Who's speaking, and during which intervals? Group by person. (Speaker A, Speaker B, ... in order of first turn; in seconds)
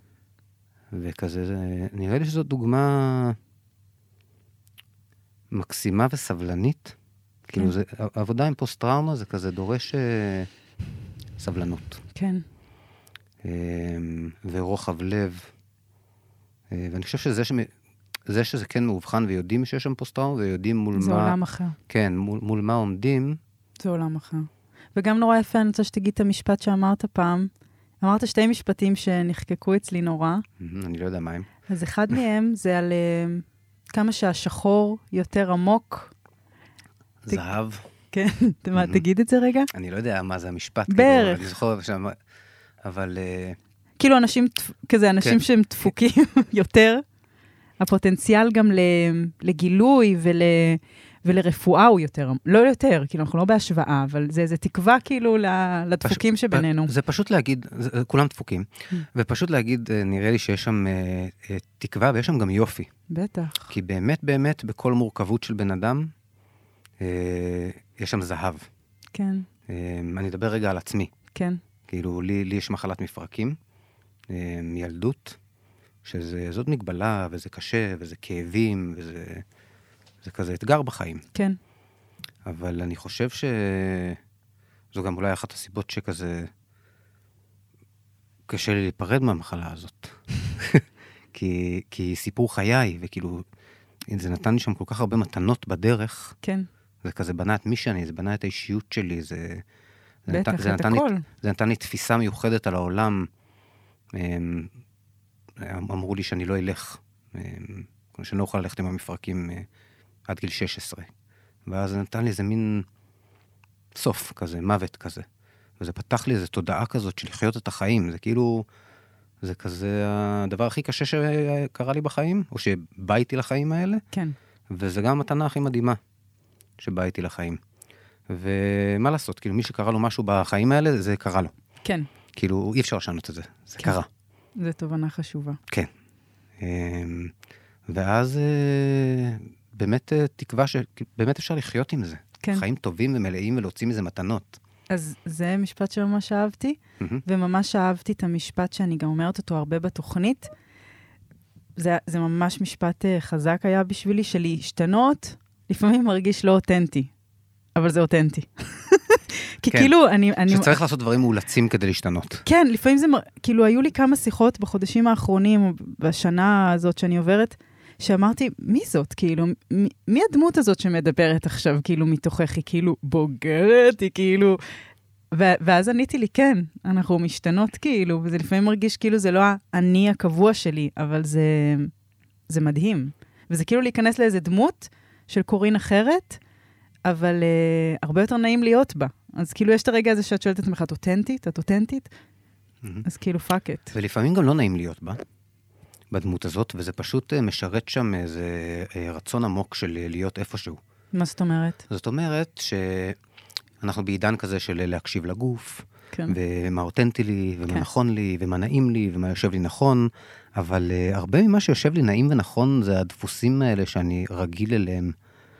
Speaker A: 0.9-3.4, 5.5-7.0, 7.5-10.5, 11.4-12.0, 13.4-15.5, 16.7-17.7, 18.3-21.4, 21.9-23.4, 30.6-31.5, 37.2-37.9, 38.7-39.0, 39.7-42.2, 42.8-43.6, 56.0-62.9, 63.7-66.1, 67.0-68.7, 69.7-71.1, 71.9-73.6, 74.3-75.4, 76.0-79.4, 80.2-81.2, 82.4-84.2, 84.9-86.5, 88.5-93.4, 94.1-96.3, 97.0-99.6, 100.3-103.3, 104.1-104.7, 105.6-109.7, 110.3-111.1, 111.7-112.8, 113.9-115.2, 115.8-118.7, 119.4-124.0, 124.7-126.0, 126.8-127.6, 128.3-131.5, 132.3-134.1, 136.6-137.3, 137.9-144.6, 159.7-159.9, 160.5-162.4, 193.9-195.2, 196.1-200.8, 201.9-203.2, 203.8-215.1
Speaker B: 12.1-12.4, 20.9-21.8, 23.8-30.4, 31.7-36.1, 38.1-39.7, 40.9-41.5, 44.0-47.0, 47.8-56.9, 63.1-63.7, 69.1-69.5, 71.3-71.6, 96.4-96.7, 100.3-101.2, 134.6-135.6, 144.9-150.5, 151.8-157.1, 157.8-160.8, 162.4-174.6, 175.3-181.9, 182.5-186.4, 187.0-192.1, 193.0-193.9, 201.1-201.8